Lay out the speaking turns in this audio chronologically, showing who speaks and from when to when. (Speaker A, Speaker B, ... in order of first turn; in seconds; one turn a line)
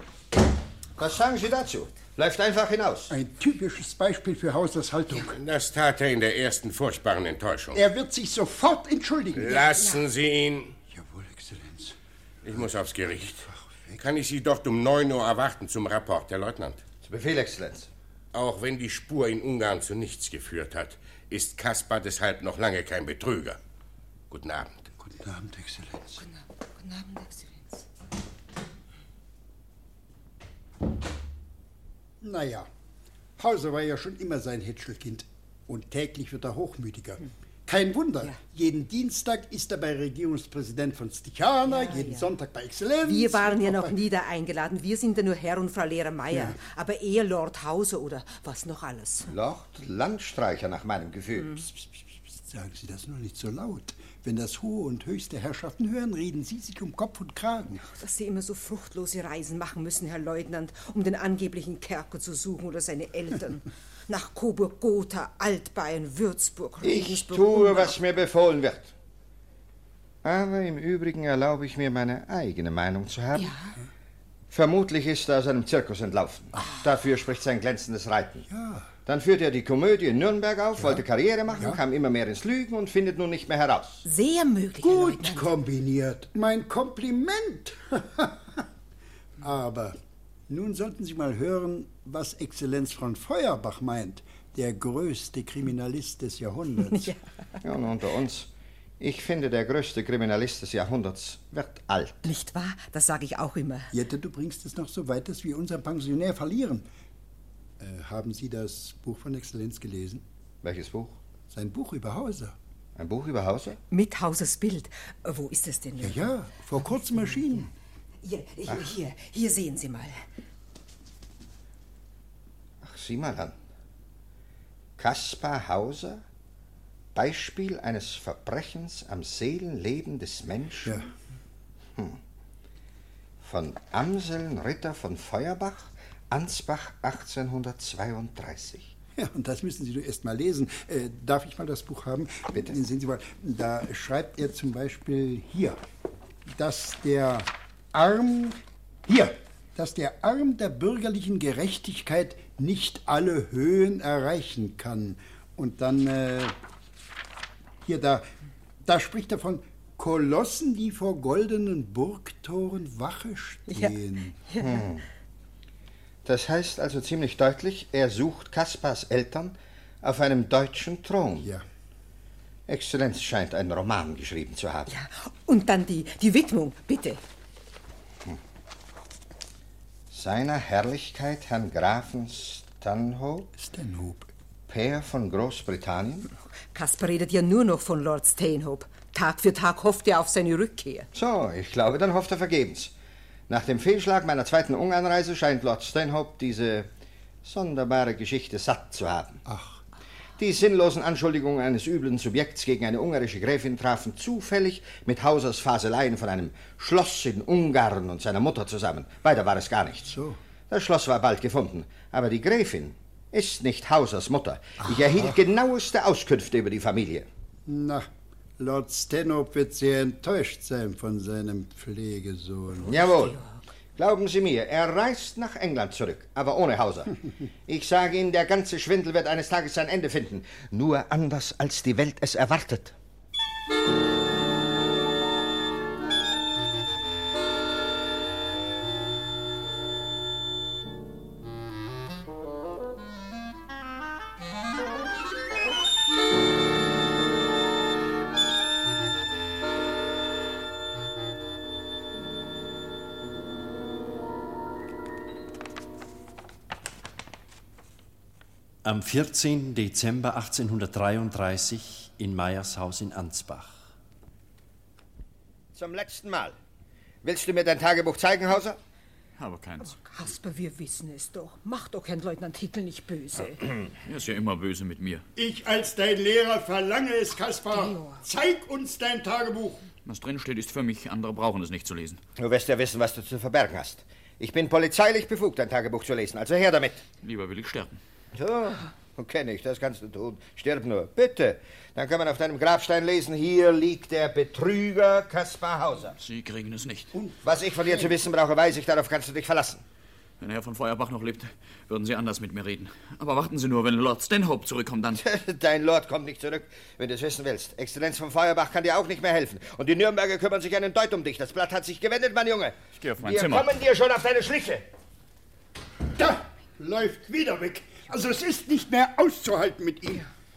Speaker A: 1.0-3.1
Speaker B: 3.1-5.3
Speaker C: 5.3-7.8
Speaker B: 7.7-9.5
Speaker C: 9.4-10.8
Speaker D: 9.4-10.1
Speaker B: 10.9-11.9
Speaker C: 12.4-13.5
Speaker B: 13.5-14.0
Speaker C: 14.0-16.8
Speaker A: 17.0-17.9
Speaker C: 18.3-23.6
Speaker C: 24.3-24.8
Speaker B: 25.0-26.2
Speaker D: 26.1-27.9
Speaker B: 32.2-32.7
Speaker B: 33.4-43.9
Speaker D: 41.7-42.3
Speaker D: 43.0-49.3
Speaker A: 49.3-51.6
Speaker D: 51.4-51.7
Speaker B: 51.7-57.8
Speaker D: 57.9-68.0
Speaker A: 66.8-68.9
Speaker A: 70.2-73.6
Speaker D: 73.3-73.8
Speaker A: 74.5-78.5
Speaker B: 78.5-78.9
Speaker A: 79.0-84.0
Speaker B: 80.8-81.8
Speaker D: 84.0-85.5
Speaker B: 84.8-88.6
Speaker B: 89.4-90.0
Speaker B: 90.5-97.1
Speaker D: 96.9-97.2
Speaker A: 97.6-102.3
Speaker D: 102.2-103.9
Speaker B: 103.9-106.9
Speaker B: 107.8-110.2
Speaker A: 110.6-111.2
Speaker B: 111.5-112.5
Speaker A: 113.0-113.8
Speaker D: 113.9-117.7
Speaker B: 116.0-117.7
Speaker D: 118.2-120.2
Speaker A: 122.8-123.6
Speaker A: 125.0-126.2
Speaker A: 127.1-130.9
Speaker A: 133.4-138.9
Speaker B: 139.2-145.8
Speaker B: 146.4-156.6
Speaker B: 157.8-158.3
Speaker B: 158.8-164.4
Speaker D: 163.7-164.9
Speaker A: 164.6-165.1
Speaker A: 166.2-171.5
Speaker A: 172.7-174.9
Speaker D: 174.9-177.2
Speaker A: 180.1-183.5
Speaker B: 183.5-184.3
Speaker A: 184.7-186.3
Speaker D: 186.7-191.1
Speaker A: 191.1-192.9
Speaker A: 193.5-196.9
Speaker A: 197.4-199.4
Speaker B: 199.4-199.8
Speaker A: 200.4-210.1
Speaker B: 210.1-210.4
Speaker A: 210.7-217.3
Speaker B: 214.8-215.4
Speaker B: 217.7-218.1
Speaker B: 218.6-223.0
Speaker D: 222.8-223.7
Speaker A: 222.9-223.4
Speaker A: 223.9-227.1
Speaker A: 227.7-232.9
Speaker E: 258.8-263.8
Speaker A: 265.7-266.6
Speaker A: 267.2-268.8
Speaker F: 269.4-269.9
Speaker D: 269.8-273.6
Speaker F: 274.1-275.2
Speaker B: 275.4-279.9
Speaker D: 277.7-278.3
Speaker F: 280.1-282.2
Speaker A: 282.4-287.1
Speaker F: 287.2-287.9
Speaker A: 288.3-296.1
Speaker F: 296.2-297.1
Speaker A: 297.4-299.8
Speaker F: 300.4-305.2
Speaker A: 305.1-314.9
Speaker B: 316.1-320.2